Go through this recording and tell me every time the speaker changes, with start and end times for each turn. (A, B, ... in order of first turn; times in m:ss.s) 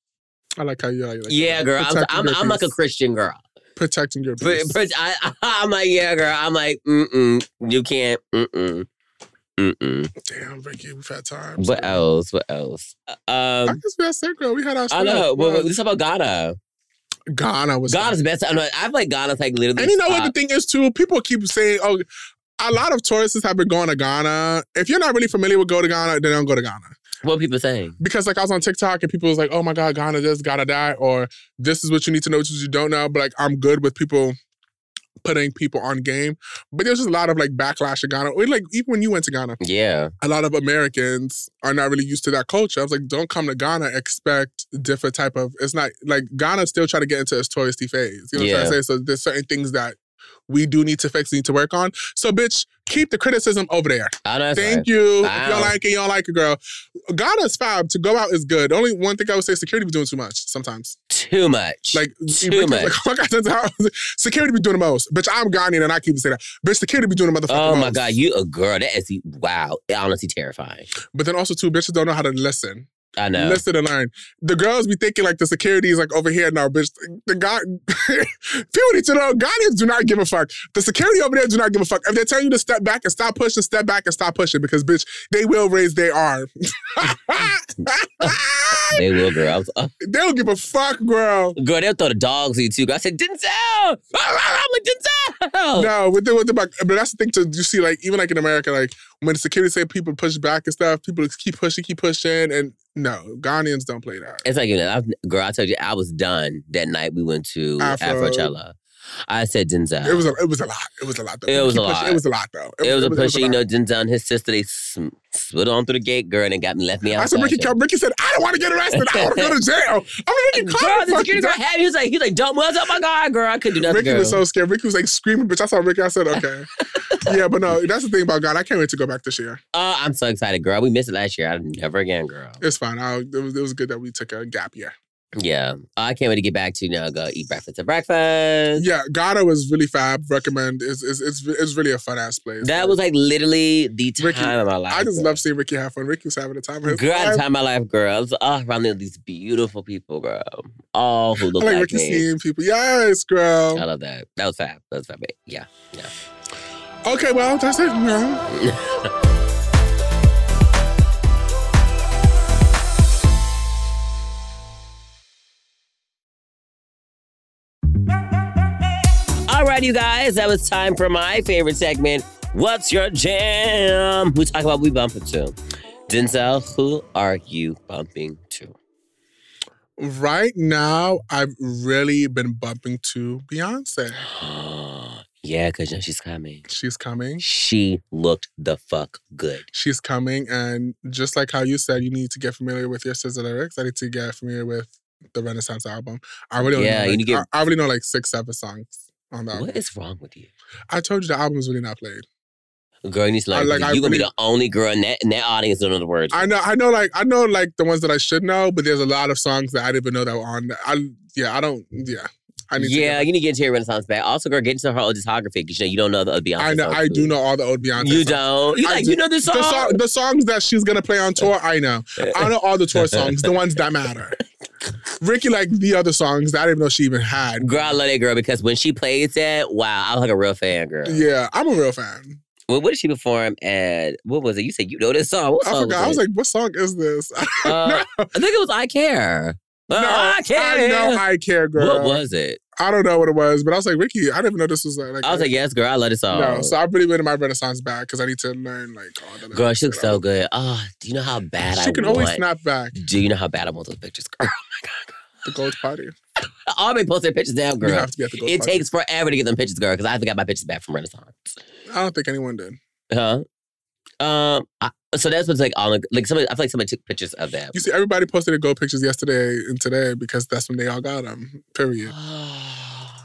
0:00.6-0:02.7 A
0:01.3-0:03.4 B
0:03.8-0:04.8 A
0:04.4-0:08.9 B
0:09.6-0:10.1 B
0:10.2-0:12.0 A
0:11.6-0:13.8 B
0:13.7-0:15.7 A
0:14.9-0:16.6 B
0:17.3-0:18.2 A
0:17.9-0:20.3 B
0:19.8-0:22.0 A
0:22.6-0:27.0 A
0:27.2-0:28.0 B
0:28.0-0:34.4 A
0:35.2-0:39.6 A
0:39.6-0:40.1 B
0:40.2-0:50.0 A
0:48.3-0:48.8 B
0:50.5-1:01.0 A
0:54.2-0:55.7 B
1:01.1-1:02.9 B
1:01.9-1:08.2 A
1:07.5-1:10.9 B
1:11.1-1:29.4 A
1:13.2-1:13.6 B
1:28.2-1:29.9 B
1:30.0-1:31.6 A
1:31.6-1:35.9 B
1:35.8-1:44.4 A
1:44.4-1:50.3 B
1:47.8-1:48.5 A
1:50.0-1:53.6 A
1:51.5-1:52.2 B
1:52.8-1:57.7 B
1:57.2-2:01.6 A
1:58.9-1:59.5 B
2:00.5-2:04.4 B
2:03.7-2:06.7 A
2:06.3-2:07.3 B
2:07.2-2:09.6 A
2:09.7-2:12.6 B
2:12.6-2:14.9 A
2:15.4-2:18.8 B
2:18.8-2:23.0 A
2:22.6-2:25.4 B
2:24.2-2:27.4 A
2:26.8-2:32.3 B
2:31.4-2:33.8 A
2:33.7-2:36.1 B
2:37.0-2:38.4 A
2:38.5-2:39.1 B
2:49.5-2:55.6 B
2:56.1-2:58.7 B
3:00.0-3:04.3 A
3:04.2-3:06.6 B
3:06.7-3:07.4 A
3:07.4-3:09.6 B
3:09.7-3:19.8 A
3:16.6-3:17.4 B
3:19.5-3:20.5 B
3:20.9-3:22.2 A
3:23.0-3:26.5 B
3:23.5-3:24.3 A
3:26.3-3:33.3 A
3:32.8-3:37.3 B
3:36.6-3:44.4 A
3:38.0-3:40.0 B
3:42.2-3:43.5 B
3:45.2-3:47.9 A
3:47.6-3:51.3 B
3:51.0-3:52.4 A
3:52.7-3:56.2 B
3:55.6-3:58.3 A
3:57.6-4:01.2 B
3:59.9-4:02.2 A
4:01.8-4:02.6 B
4:02.8-4:05.5 A
4:05.2-4:06.8 B
4:06.3-4:10.2 A
4:09.5-4:15.2 B
4:11.7-4:13.0 A
4:15.4-4:16.1 A
4:16.7-4:21.5 B
4:17.8-4:18.8 A
4:21.9-4:22.8 A
4:23.1-4:23.4 B
4:24.2-4:27.8 B
4:27.7-4:32.1 A
4:32.1-4:33.2 B